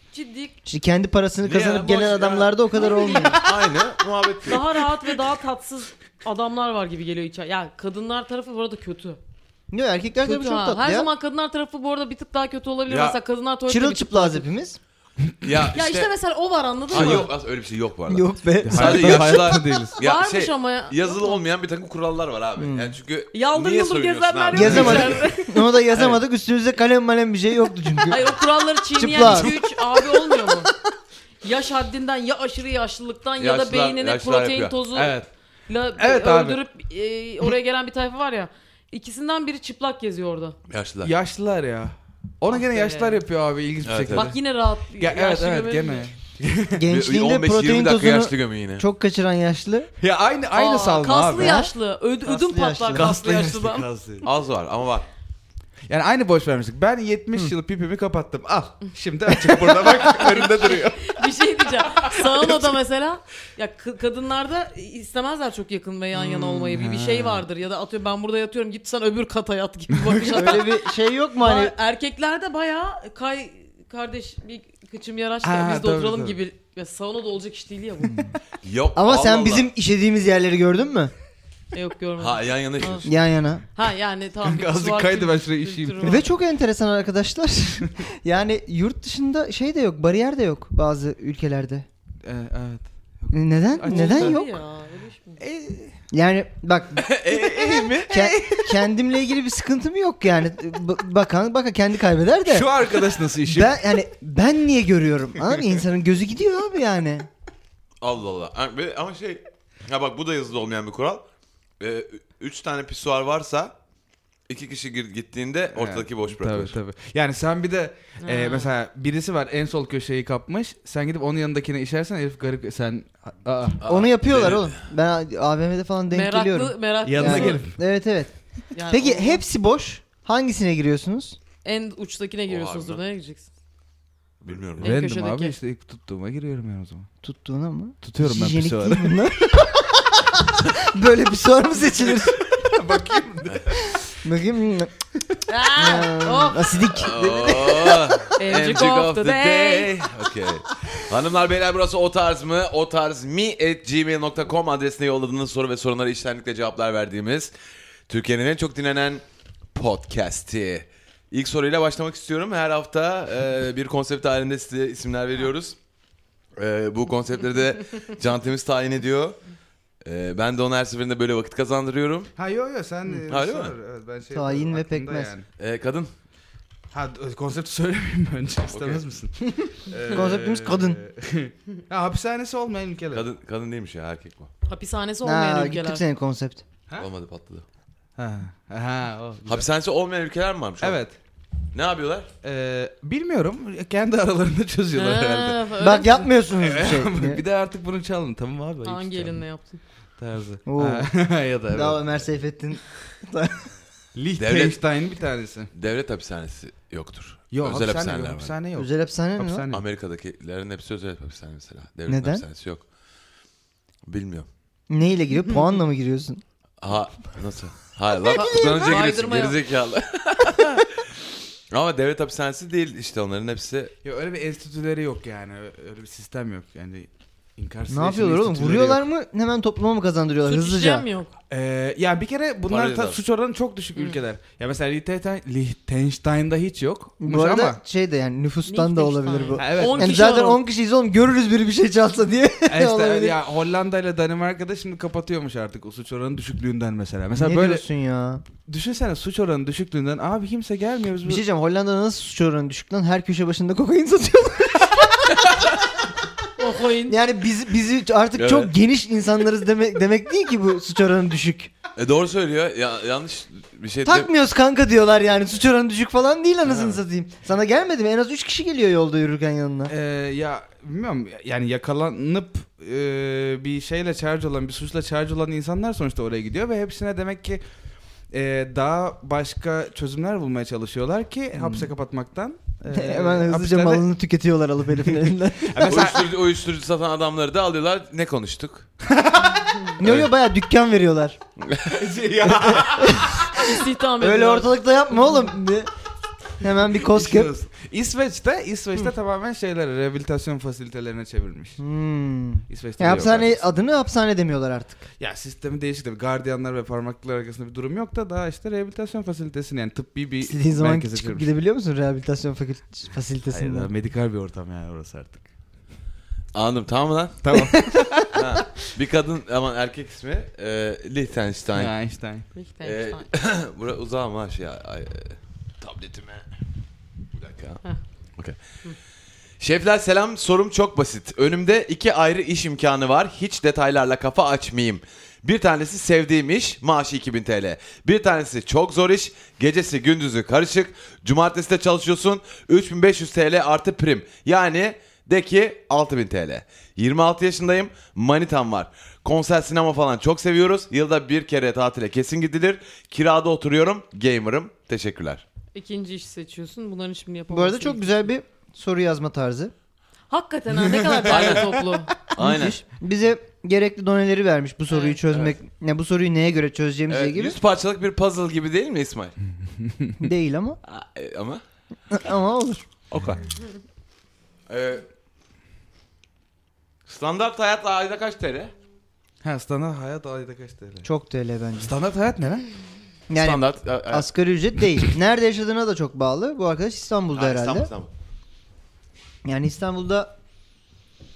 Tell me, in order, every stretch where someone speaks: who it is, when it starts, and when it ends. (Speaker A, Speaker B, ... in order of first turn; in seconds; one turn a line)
Speaker A: 0.1-0.5
Speaker B: 0.6-3.4
Speaker C: 1.4-2.6
Speaker A: 2.7-3.4
Speaker C: 3.3-4.8
Speaker A: 4.4-9.2
Speaker B: 9.7-11.1
Speaker A: 10.2-14.4
Speaker C: 12.9-13.2
Speaker B: 13.7-14.8
Speaker C: 15.4-16.1
Speaker A: 15.7-17.3
Speaker C: 16.9-25.2
Speaker B: 16.9-17.2
Speaker B: 18.1-19.5
Speaker D: 18.6-20.0
Speaker A: 20.0-21.4
Speaker B: 22.6-22.9
Speaker A: 23.3-25.7
Speaker B: 24.5-28.2
Speaker D: 24.7-24.9
Speaker A: 28.0-30.7
Speaker B: 28.9-29.6
Speaker A: 31.4-35.2
Speaker C: 33.4-34.8
Speaker D: 34.9-35.3
Speaker A: 35.7-40.5
Speaker D: 36.0-36.6
Speaker C: 40.7-41.1
Speaker D: 41.0-44.4
Speaker A: 42.5-43.2
Speaker C: 43.8-44.3
Speaker A: 44.1-46.1
Speaker D: 45.0-46.8
Speaker B: 46.7-49.9
Speaker C: 46.9-48.8
Speaker D: 50.0-51.6
Speaker A: 50.5-54.2
Speaker B: 51.3-51.7
Speaker B: 52.2-53.1
Speaker D: 52.9-54.2
Speaker C: 54.2-55.1
Speaker D: 55.9-61.2
Speaker B: 59.5-60.0
Speaker C: 59.7-60.5
Speaker A: 60.1-70.8
Speaker D: 61.8-62.7
Speaker B: 66.1-66.8
Speaker D: 66.7-67.4
Speaker D: 69.9-70.6
Speaker B: 70.3-71.7
Speaker A: 71.4-78.3
Speaker D: 75.4-76.4
Speaker C: 78.6-79.7
Speaker B: 78.9-81.1
Speaker A: 81.7-83.1
Speaker C: 82.2-83.1
Speaker B: 83.0-83.6
Speaker A: 83.7-86.3
Speaker D: 84.4-86.2
Speaker B: 86.0-91.8
Speaker D: 92.2-94.4
Speaker B: 93.3-94.5
Speaker A: 93.8-95.4
Speaker D: 95.4-96.0
Speaker B: 96.1-97.2
Speaker C: 97.0-98.2
Speaker D: 97.3-98.7
Speaker B: 98.1-102.7
Speaker D: 102.5-103.8
Speaker B: 103.4-107.3
Speaker C: 108.0-111.3
Speaker C: 111.8-113.7
Speaker C: 114.5-116.7
Speaker D: 115.7-123.8
Speaker A: 118.2-118.7
Speaker C: 123.8-124.8
Speaker B: 123.8-128.3
Speaker A: 126.1-127.6
Speaker D: 127.0-127.8
Speaker A: 128.7-129.4
Speaker B: 128.9-131.4
Speaker A: 131.6-133.5
Speaker C: 132.5-133.0
Speaker C: 134.4-134.9
Speaker D: 134.8-137.1
Speaker A: 134.8-135.6
Speaker B: 137.2-142.4
Speaker D: 138.0-139.2
Speaker D: 142.5-144.0
Speaker B: 144.0-144.9
Speaker A: 145.5-146.8
Speaker B: 145.7-148.2
Speaker C: 146.9-157.5
Speaker A: 148.4-150.0
Speaker C: 158.1-165.8
Speaker C: 166.6-169.4
Speaker C: 170.0-172.3
Speaker D: 172.4-175.4
Speaker C: 173.3-173.7
Speaker B: 174.3-175.3
Speaker C: 175.6-176.1
Speaker D: 176.9-183.2
Speaker C: 178.7-179.0
Speaker B: 180.1-181.0
Speaker C: 183.1-184.5
Speaker A: 184.7-186.0
Speaker B: 185.2-186.6
Speaker C: 187.0-187.6
Speaker D: 188.2-189.7
Speaker C: 189.5-191.0
Speaker D: 190.8-191.2
Speaker C: 191.7-192.3
Speaker D: 192.4-195.6
Speaker A: 194.9-196.3
Speaker B: 195.8-197.4
Speaker D: 196.6-199.4
Speaker A: 198.8-199.8
Speaker D: 200.2-202.2
Speaker B: 200.7-201.1
Speaker B: 201.7-203.7
Speaker D: 204.1-205.7
Speaker C: 204.4-204.8
Speaker C: 205.7-208.5
Speaker D: 207.5-209.8
Speaker B: 208.8-209.6
Speaker C: 209.7-212.8
Speaker B: 212.1-212.4
Speaker C: 214.1-214.5
Speaker B: 214.9-216.4
Speaker C: 216.8-220.9
Speaker A: 218.3-219.6
Speaker C: 221.7-223.9
Speaker D: 224.0-229.0
Speaker B: 227.9-231.1
Speaker A: 230.4-231.3
Speaker D: 231.5-237.8
Speaker C: 232.7-233.2
Speaker B: 237.2-243.4
Speaker A: 238.7-240.6
Speaker D: 239.6-240.4
Speaker D: 242.7-247.8
Speaker B: 247.3-248.4
Speaker D: 248.6-251.4
Speaker B: 251.2-255.5
Speaker A: 256.6-257.2
Speaker B: 257.1-261.7
Speaker C: 258.4-258.7
Speaker C: 261.9-264.3
Speaker B: 264.0-269.9
Speaker C: 266.6-267.0
Speaker D: 269.9-277.6
Speaker D: 278.3-284.1
Speaker B: 281.5-281.9
Speaker B: 282.9-286.0
Speaker D: 285.6-286.4
Speaker C: 285.9-288.9
Speaker D: 289.1-289.8
Speaker B: 290.0-291.4
Speaker C: 290.0-290.3
Speaker C: 291.6-292.1
Speaker D: 291.9-293.2
Speaker B: 292.7-295.9
Speaker A: 293.5-294.7
Speaker B: 296.6-297.5
Speaker D: 297.0-301.8
Speaker B: 301.8-305.0
Speaker D: 302.7-303.6
Speaker D: 305.2-311.5
Speaker B: 310.4-313.9
Speaker D: 313.5-315.4
Speaker C: 316.5-317.7
Speaker D: 317.4-318.3
Speaker B: 317.5-318.1
Speaker C: 318.3-321.9
Speaker D: 321.7-322.4
Speaker A: 322.5-323.3
Speaker C: 322.8-326.5
Speaker C: 327.4-327.8
Speaker C: 329.6-355.4
Speaker A: 355.7-358.3
Speaker B: 357.5-359.7
Speaker A: 360.3-362.2
Speaker B: 360.9-361.6
Speaker C: 361.2-361.8
Speaker C: 362.4-362.8
Speaker B: 362.4-367.6
Speaker A: 364.9-365.2
Speaker C: 365.3-365.5
Speaker C: 367.1-369.3
Speaker B: 370.2-370.8
Speaker C: 370.9-371.6
Speaker B: 372.1-372.9
Speaker C: 373.1-373.4
Speaker C: 374.7-375.1
Speaker C: 377.1-378.7
Speaker D: 379.4-381.1
Speaker B: 381.0-381.9
Speaker D: 381.8-382.6
Speaker B: 383.3-387.9
Speaker C: 383.4-384.3
Speaker C: 387.3-388.1
Speaker B: 389.4-390.3